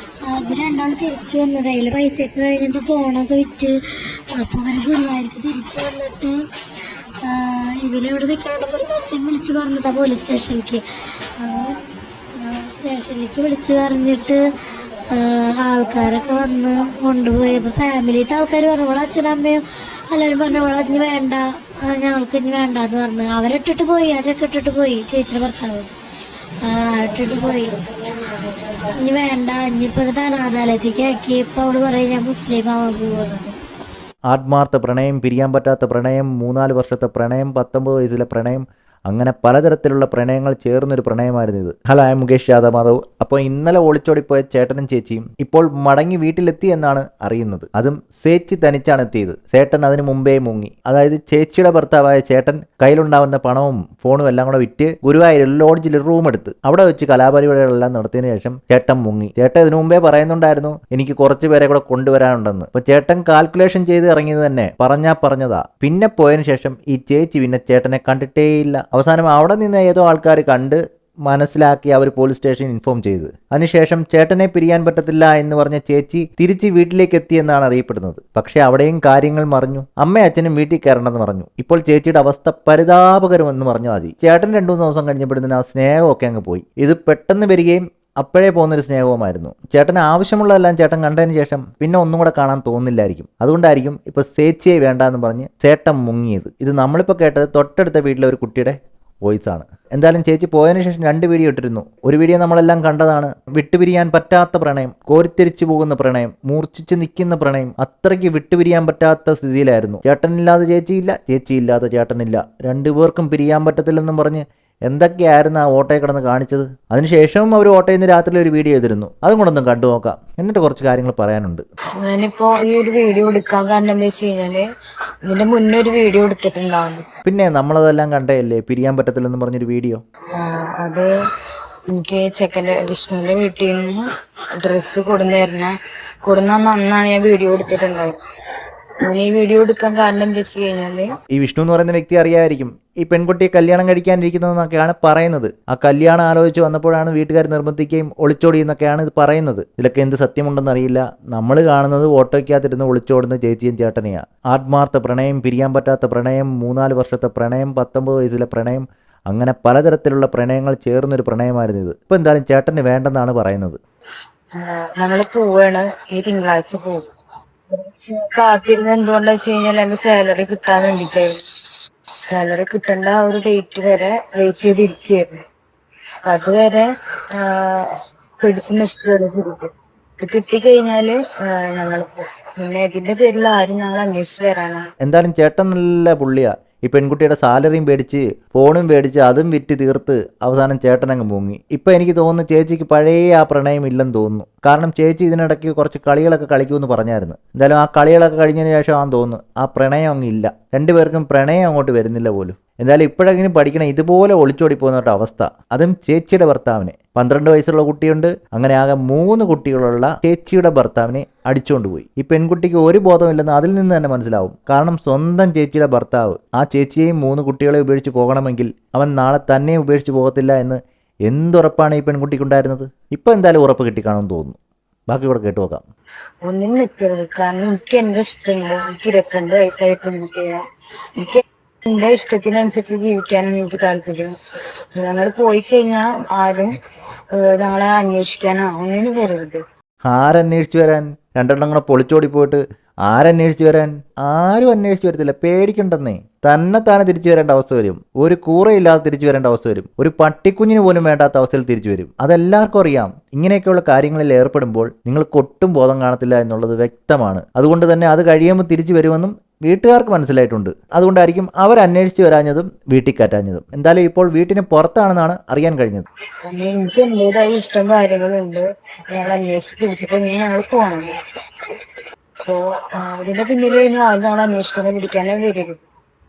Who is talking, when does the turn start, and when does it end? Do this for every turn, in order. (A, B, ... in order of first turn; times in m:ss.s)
0:00.2-0:03.8 A
0:04.4-0:06.4 A
0:07.2-0:10.8 A
0:11.4-0:11.8 A
0:12.4-0:14.4 A
0:15.1-0:25.9 A
0:26.6-0:27.8 A
0:29.0-0:33.6 A
0:34.3-2:01.6 B
2:02.0-2:04.6 C
2:05.3-2:07.0 C
2:07.2-2:10.0 B
2:10.4-2:11.1 C
2:11.9-2:14.0 C
2:14.6-2:18.2 C
2:19.0-2:21.1 C
2:21.4-2:43.8 B
2:44.6-2:47.0 C
2:47.7-2:51.3 C
2:52.3-2:55.3 C
2:56.3-3:04.9 C
3:05.0-3:44.6 B
3:45.1-3:45.8 B
3:46.4-3:50.6 C
3:51.2-3:54.3 C
3:55.0-3:56.7 C
3:57.4-3:59.6 C
4:00.0-4:26.1 B
4:26.5-4:31.1 C
4:32.5-4:35.8 C